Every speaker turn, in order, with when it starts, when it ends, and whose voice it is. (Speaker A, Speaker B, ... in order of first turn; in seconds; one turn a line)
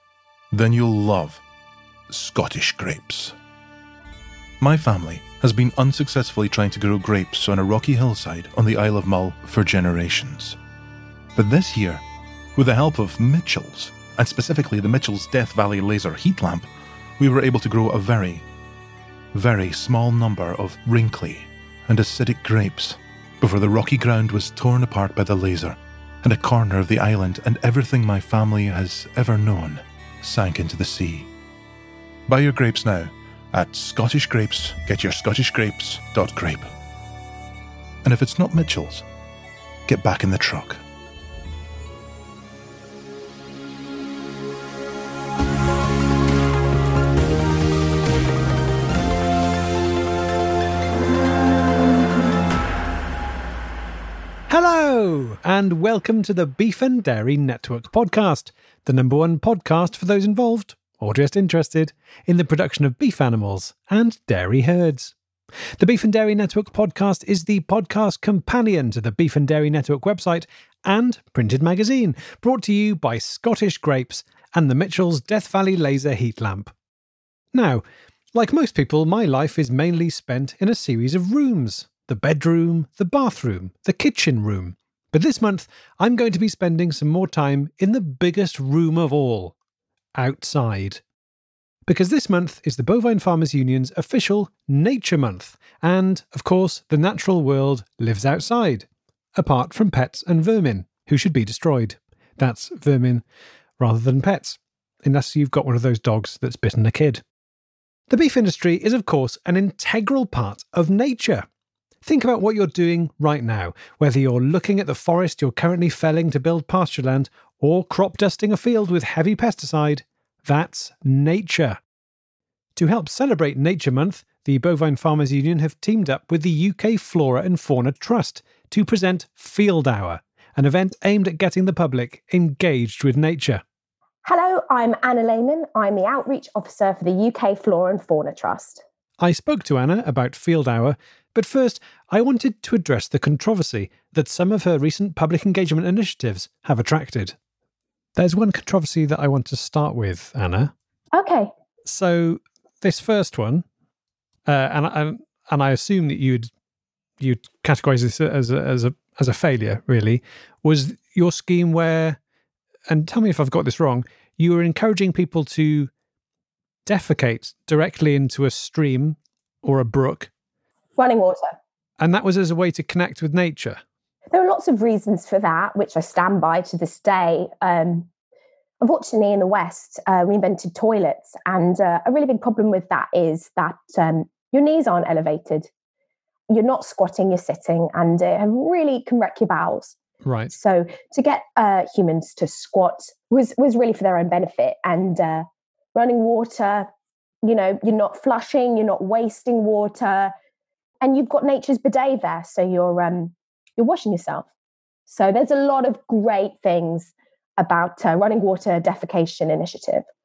Speaker A: 0.5-1.4
Speaker A: 2.1-3.4
Speaker A: 4.6-10.6
Speaker A: 11.4-12.0
Speaker A: 12.6-18.4
Speaker A: 19.3-31.3
Speaker A: 32.3-36.7
Speaker A: 38.0-39.1
Speaker A: 39.9-40.8
Speaker B: 54.5-65.1
Speaker B: 65.8-76.7
Speaker B: 77.5-89.5
Speaker B: 90.2-91.0
Speaker B: 91.9-103.2
Speaker B: 103.8-107.2
Speaker B: 108.1-111.5
Speaker B: 112.0-121.8
Speaker B: 122.8-133.6
Speaker C: 134.2-138.8
Speaker B: 139.2-147.4
Speaker B: 148.2-150.7
Speaker C: 151.1-151.5
Speaker B: 151.8-153.7
Speaker B: 154.5-156.5
Speaker B: 157.2-162.2
Speaker B: 162.9-165.9
Speaker B: 166.9-170.3
Speaker C: 171.0-171.6
Speaker B: 172.0-173.8
Speaker C: 174.3-178.1
Speaker C: 178.8-185.7
Speaker C: 186.5-190.0
Speaker B: 190.2-190.5
Speaker C: 190.5-196.9
Speaker C: 197.4-200.3
Speaker C: 201.0-204.5
Speaker C: 205.1-210.1